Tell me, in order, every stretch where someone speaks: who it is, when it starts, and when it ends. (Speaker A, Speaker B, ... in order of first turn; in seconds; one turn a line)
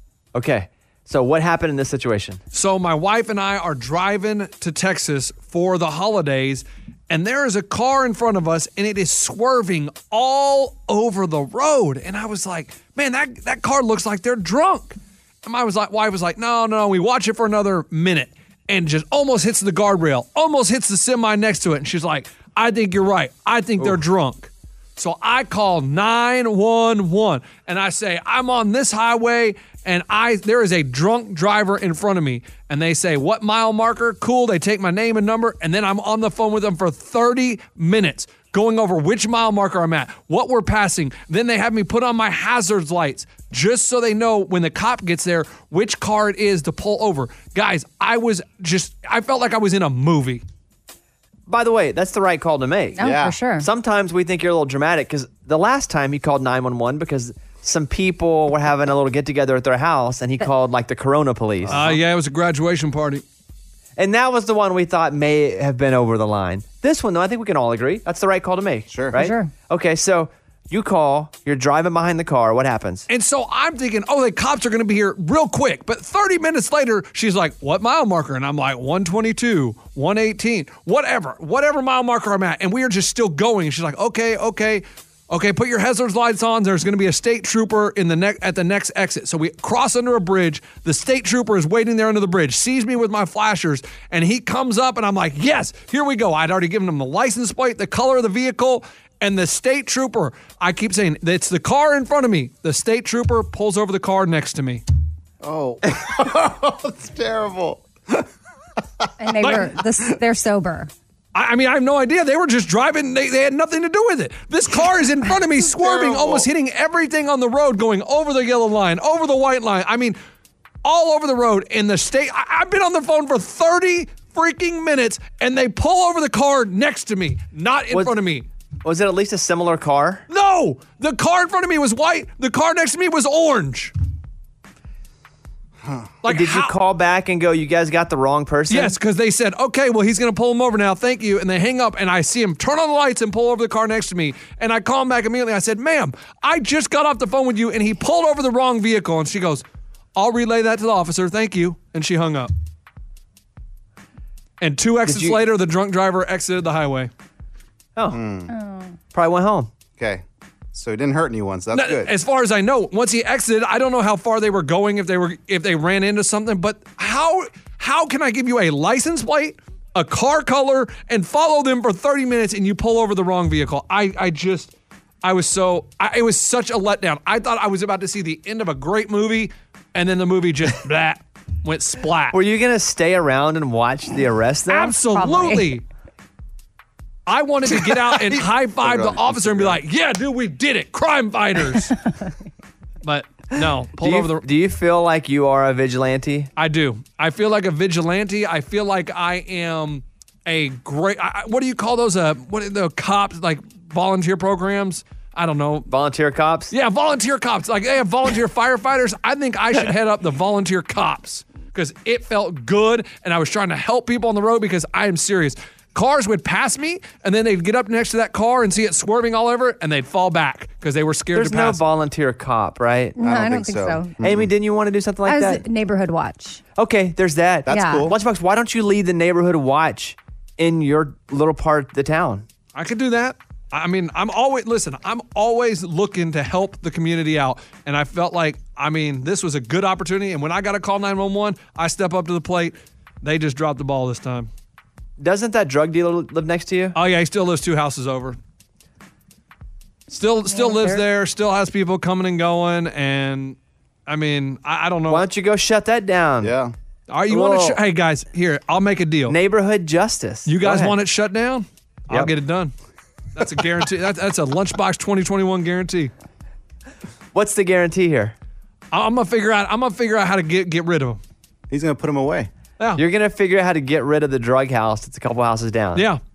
Speaker A: 0.3-2.4
Speaker B: 2.5-50.4
Speaker A: 51.5-61.9
Speaker C: 53.0-53.7
Speaker D: 53.0-53.4
Speaker D: 61.6-62.0
Speaker B: 61.7-63.2
Speaker A: 64.0-73.1
Speaker D: 68.9-69.3
Speaker C: 69.1-69.5
Speaker B: 73.1-104.8
Speaker D: 105.4-108.3
Speaker C: 109.2-110.9
Speaker B: 111.3-120.2
Speaker D: 115.7-116.5
Speaker B: 120.8-128.5
Speaker A: 127.9-128.2
Speaker A: 128.8-130.2
Speaker B: 130.3-133.9
Speaker D: 135.8-136.1
Speaker B: 136.2-136.8
Speaker A: 136.3-139.0
Speaker B: 138.7-149.6
Speaker B: 150.2-152.5
Speaker B: 154.6-157.1
Speaker A: 155.1-155.4
Speaker D: 158.1-158.5
Speaker C: 158.5-159.0
Speaker A: 159.1-159.7
Speaker D: 160.0-162.1
Speaker B: 161.7-174.7
Speaker B: 175.2-182.4
Speaker A: 182.3-184.9
Speaker B: 184.7-185.8
Speaker C: 185.0-185.8
Speaker B: 187.3-191.9
Speaker D: 187.9-189.8
Speaker B: 193.0-194.4
Speaker A: 194.0-196.5
Speaker B: 196.6-205.9
Speaker A: 205.9-206.7
Speaker B: 206.7-221.8
Speaker A: 221.3-223.2
Speaker C: 223.2-224.2
Speaker D: 223.2-224.5
Speaker A: 224.2-225.6
Speaker C: 225.3-226.6
Speaker A: 226.8-232.4
Speaker D: 227.7-228.2
Speaker C: 227.7-228.1
Speaker B: 232.8-244.5
Speaker A: 245.2-247.0
Speaker B: 246.9-248.4
Speaker B: 250.1-255.3
Speaker C: 250.5-251.1
Speaker A: 255.1-256.5
Speaker D: 256.4-256.7
Speaker B: 257.1-259.4
Speaker A: 257.3-257.8
Speaker A: 259.3-261.0
Speaker B: 260.5-262.7
Speaker B: 263.4-266.1
Speaker A: 267.3-268.4
Speaker B: 268.9-271.2
Speaker D: 271.7-272.5
Speaker A: 273.0-276.1
Speaker B: 275.9-276.2